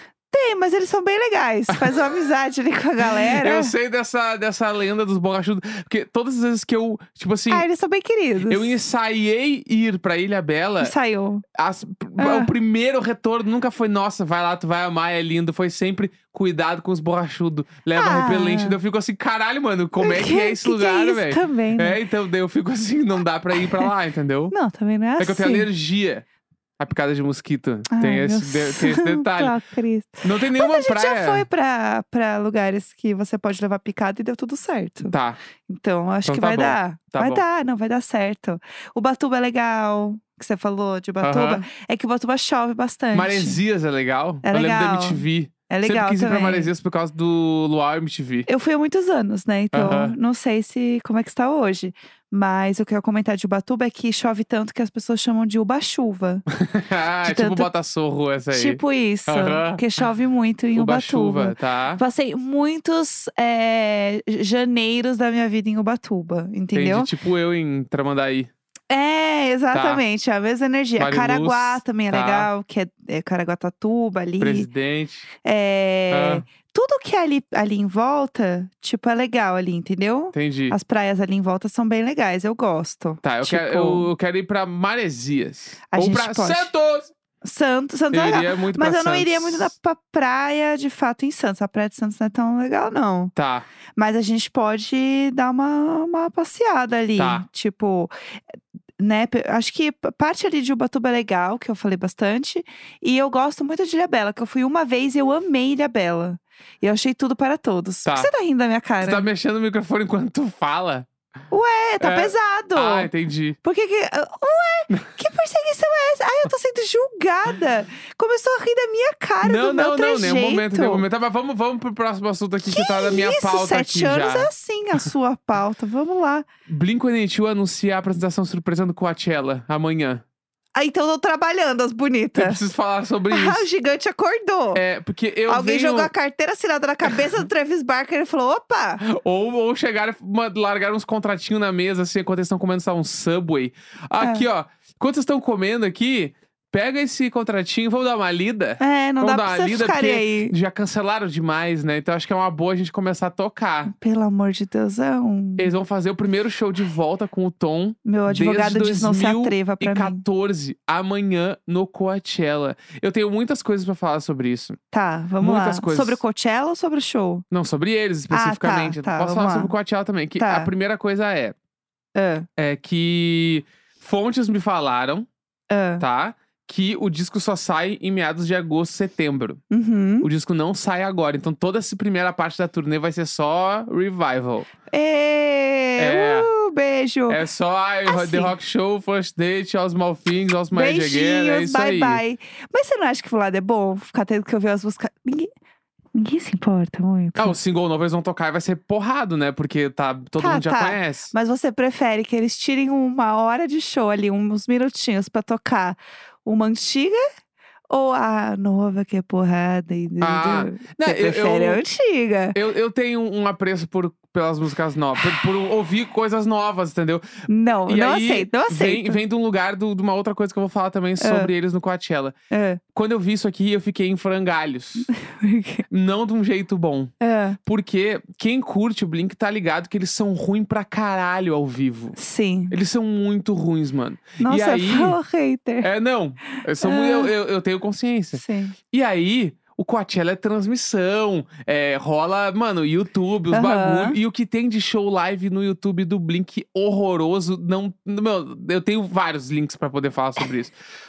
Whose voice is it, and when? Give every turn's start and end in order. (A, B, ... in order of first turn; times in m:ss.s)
0:00.3-0:03.7 A
0:01.7-0:02.0 B
0:03.0-0:07.6 B
0:07.5-0:08.7 A
0:08.5-0:10.9 B
0:10.8-0:11.4 A
0:11.6-0:24.5 B
0:12.2-0:12.5 A
0:17.9-0:18.8 A
0:20.0-0:22.0 A
0:23.5-0:23.9 A
0:24.5-0:25.7 A
0:25.2-0:26.2 B
0:26.8-0:29.6 B
0:27.9-0:35.1 A
0:30.2-0:31.4 B
0:35.0-0:35.4 B
0:35.7-0:43.6 A
0:36.2-0:37.4 B
0:41.2-0:41.6 B
0:43.1-0:48.5 B
0:44.4-0:46.7 A
0:48.5-0:56.5 A
0:49.7-0:50.2 B
0:56.6-0:59.8 B
0:57.2-0:57.7 A
0:58.5-1:07.1 A
1:00.7-1:02.0 B
1:06.7-1:08.5 B
1:08.9-1:14.7 A
1:09.7-1:10.0 B
1:11.0-1:12.5 B
1:14.4-1:15.3 B
1:15.4-1:24.1 A
1:16.1-1:16.5 B
1:20.3-1:20.8 B
1:23.2-1:27.1 B
1:25.9-1:26.7 A
1:27.4-1:33.3 A
1:28.1-1:29.7 B
1:33.4-1:33.7 B
1:33.9-1:38.1 A
1:37.2-1:37.4 B
1:39.0-1:49.3 A
1:48.0-1:48.3 B
1:49.0-1:51.1 B
1:51.5-1:53.1 A
1:52.0-1:53.6 B
1:53.6-2:01.0 A
1:59.4-2:04.5 B
2:02.6-2:06.5 A
2:06.7-2:10.2 B
2:10.7-2:12.6 A
2:12.4-2:13.6 B
2:13.3-2:14.8 A
2:14.7-2:16.1 B
2:15.5-2:19.0 A
2:19.0-2:33.9 B
2:24.2-2:24.4 A
2:28.8-2:30.5 A
2:33.9-2:35.7 A
2:35.6-2:44.8 B
2:38.0-2:40.2 A
2:44.9-2:47.4 A
2:45.4-2:46.2 B
2:47.5-2:51.5 B
2:48.3-2:49.7 A
2:50.4-2:50.7 A
2:52.1-2:52.5 A
2:52.6-2:55.3 B
2:55.7-2:56.0 A
2:56.0-2:59.6 B
2:59.7-3:00.3 A
3:00.2-3:04.7 B
3:04.9-3:07.4 A
3:06.0-3:06.5 B
3:07.3-3:12.2 B
3:08.0-3:08.5 A
3:10.7-3:15.5 A
3:16.1-3:17.5 A
3:17.4-3:21.3 B
3:20.4-3:27.2 A
3:27.9-3:32.6 A
3:30.2-3:31.8 B
3:32.5-3:37.2 B
3:37.5-3:39.2 A
3:37.9-3:42.3 B
3:41.2-3:41.5 A
3:42.5-3:42.8 A
3:42.9-3:45.1 B
3:45.1-3:45.8 A
3:45.9-3:47.1 B
3:47.2-3:47.6 A
3:47.6-3:52.2 B
3:52.2-3:52.7 A
3:52.7-3:55.2 B
3:54.4-3:55.9 A
3:55.8-3:58.4 B
3:56.5-3:57.3 A
3:58.3-3:58.7 A
3:58.9-4:10.7 B
4:03.5-4:04.2 A